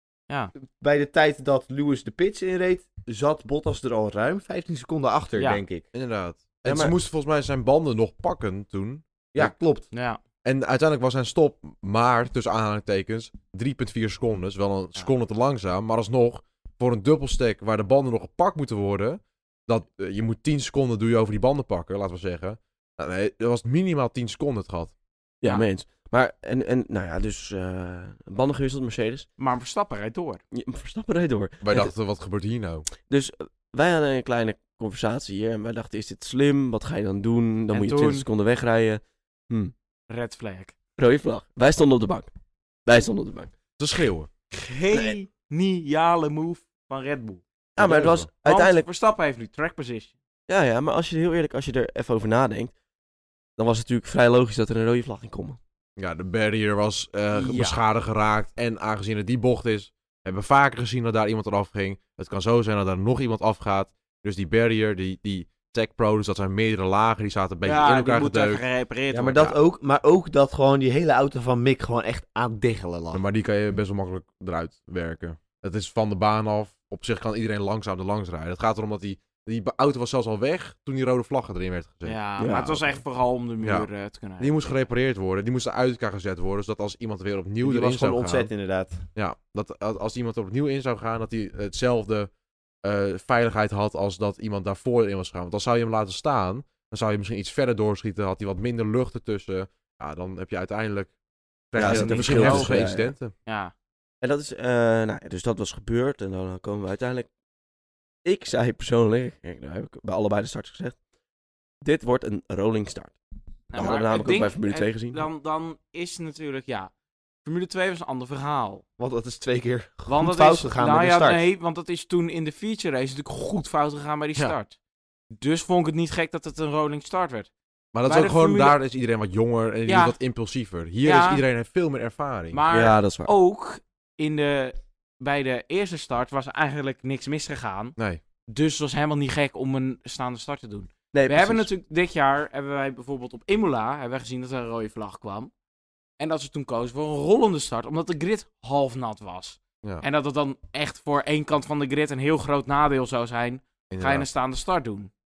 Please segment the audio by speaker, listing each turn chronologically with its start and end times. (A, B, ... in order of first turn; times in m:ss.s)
0:00.7-0:05.8 A
0:05.9-0:09.5 B
0:06.6-0:06.9 C
0:09.3-0:09.9 A
0:09.9-0:10.2 D
0:10.4-0:24.9 B
0:25.4-0:29.3 C
0:29.4-0:30.4 D
0:30.5-0:31.9 C
0:31.6-0:32.9 B
0:33.1-0:39.7 C
0:37.7-0:38.2 D
0:40.1-0:40.8 D
0:41.0-0:42.3 C
0:42.8-0:43.5 C
0:43.8-0:44.3 B
0:44.5-0:47.4 D
0:47.8-0:48.8 C
0:47.8-0:48.3 B
0:48.4-0:50.1 D
0:50.5-0:52.7 C
0:53.6-0:55.6 C
0:56.0-1:08.6 B
0:57.3-0:57.8 D
1:07.6-1:09.5 D
1:09.1-1:13.2 A
1:13.1-1:22.2 B
1:22.0-1:24.8 D
1:22.4-1:22.9 C
1:23.6-1:23.9 B
1:24.4-1:28.5 B
1:27.6-1:29.0 A
1:29.1-1:32.3 B
1:32.8-1:41.1 B
1:41.7-1:43.3 B
1:41.8-1:43.1 C
1:41.8-1:42.8 D
1:43.4-1:43.7 D
1:44.2-1:47.3 C
1:48.2-1:51.0 C
1:51.8-1:53.2 C
1:53.7-1:56.9 D
1:53.7-1:55.3 C
1:57.4-1:58.8 D
1:59.0-2:01.5 A
2:00.1-2:04.8 D
2:05.4-2:07.5 D
2:07.9-2:12.6 B
2:08.0-2:08.8 D
2:09.9-2:10.2 D
2:11.0-2:11.4 D
2:12.5-2:18.0 D
2:12.7-2:13.3 C
2:18.5-2:25.5 D
2:21.1-2:21.7 C
2:26.2-2:35.1 D
2:33.9-2:34.3 B